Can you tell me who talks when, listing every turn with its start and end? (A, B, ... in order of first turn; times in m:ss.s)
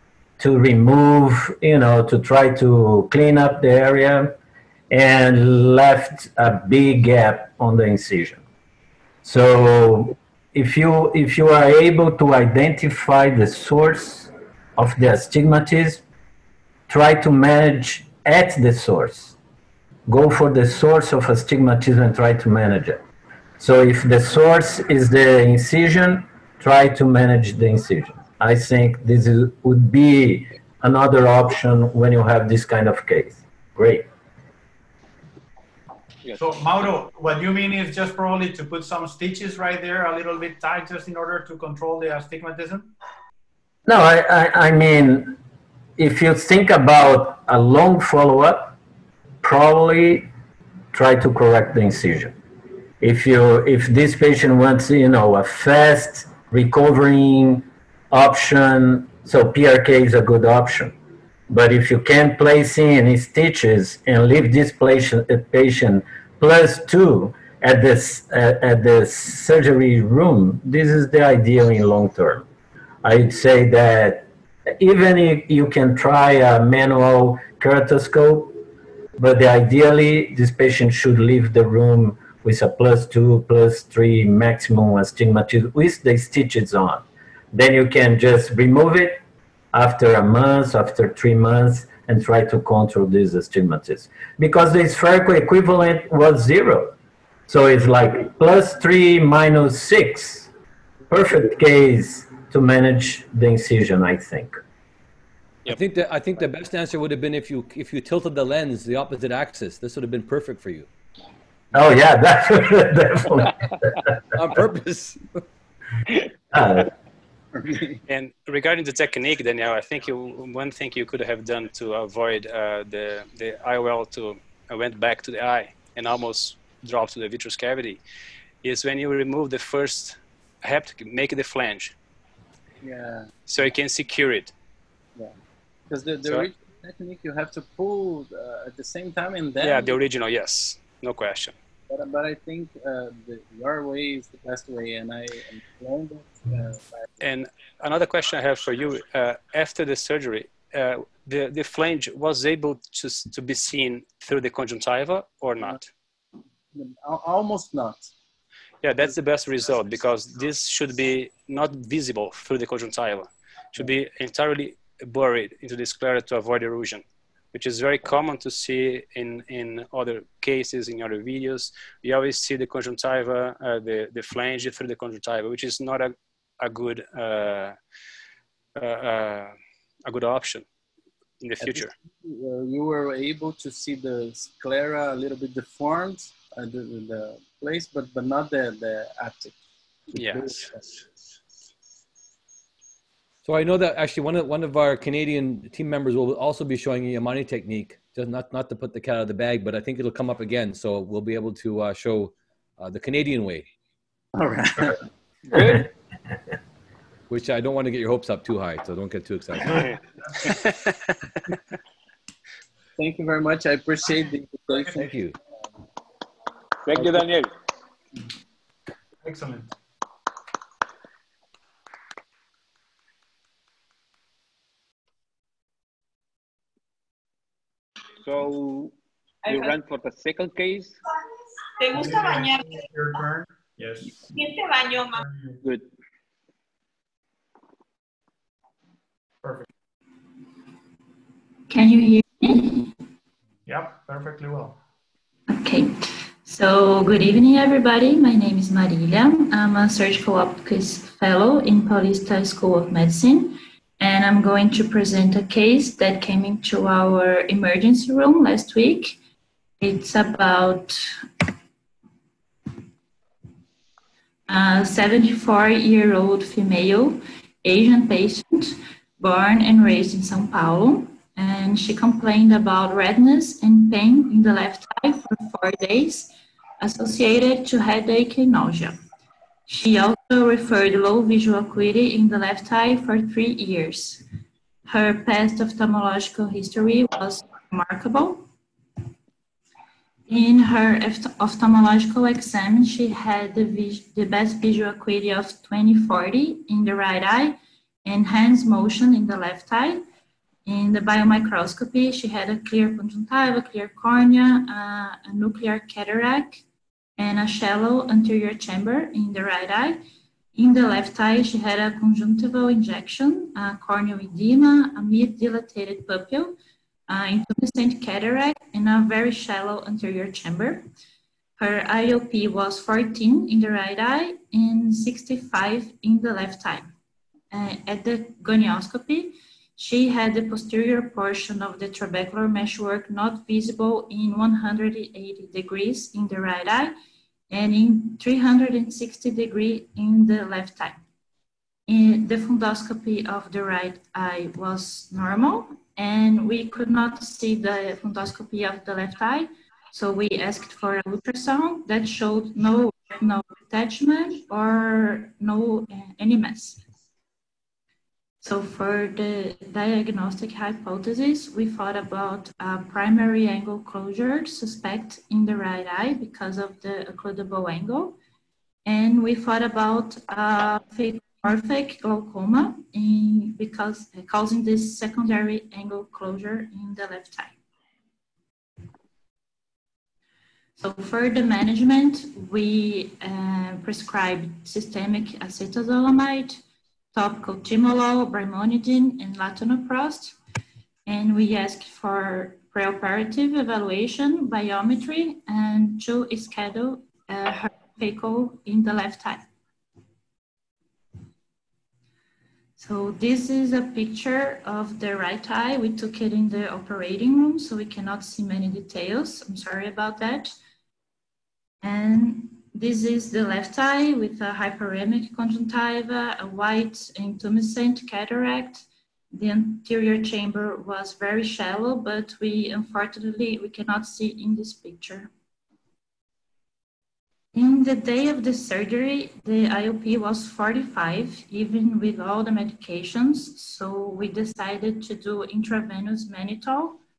0:00.4-0:04.3 A
0:04.9-0:08.4 A
0:09.2-0:16.0 A
0:16.9-0:19.4 A
0:20.1-0:23.0 A
0:23.6-0:34.1 A
0:36.3-0:42.9 B
0:43.8-0:45.4 A
0:46.0-0:48.8 A
0:49.4-0:50.3 A
0:50.9-0:52.4 A
0:53.0-1:01.0 A
1:01.5-1:12.5 A
1:13.0-1:18.6 A
1:19.2-1:29.2 A
1:29.7-1:37.0 A
1:37.5-1:40.5 A
1:41.1-1:44.6 A
1:45.7-1:50.9 C
1:51.7-1:54.0 A
1:54.4-1:55.2 C
1:56.5-1:56.9 A
1:57.7-1:58.0 D
1:58.1-2:08.0 E
2:08.6-2:12.0 E
2:12.8-2:13.3 D
2:13.5-2:14.5 E
2:15.9-2:20.0 D
2:19.6-2:21.6 E
2:21.9-2:27.1 D
2:27.2-2:35.9 E
2:36.7-2:38.1 D
2:38.8-2:57.8 E
2:58.8-2:59.5 E
3:00.0-3:00.6 E
3:01.4-3:01.9 E
3:01.6-3:09.5 D
3:10.1-3:10.8 D
3:10.1-3:10.8 E
3:13.4-3:23.7 C
3:24.4-3:25.0 D
3:27.3-3:29.9 C
3:33.0-3:35.1 D
3:35.0-3:35.4 C
3:36.8-3:37.5 F
3:37.0-3:37.2 D
3:39.2-3:39.7 B
3:48.2-3:48.9 F
3:49.4-3:49.8 G
3:49.5-3:51.0 F
3:51.8-3:52.8 G
3:51.9-3:54.3 B
3:54.3-3:55.2 G
3:55.1-3:55.6 B
4:01.7-4:02.9 H
4:03.7-4:04.8 B
4:05.5-4:19.2 H
4:19.8-4:21.0 H
4:24.5-4:39.0 H
4:39.7-4:44.2 H
4:44.9-4:48.5 H
4:50.3-5:00.0 H
5:00.7-5:06.6 H
5:07.2-5:10.0 H
5:10.6-5:16.6 H
5:17.1-5:20.8 H
5:21.6-5:26.9 H
5:27.5-5:36.9 H
5:37.5-5:41.0 H
5:41.9-5:56.8 H
5:58.4-6:08.2 H
6:08.8-6:17.6 H
6:20.8-6:26.6 H
6:27.1-6:30.4 H
6:31.1-6:39.4 H
6:42.8-6:50.5 H
6:51.8-7:05.3 H
7:07.5-7:17.0 H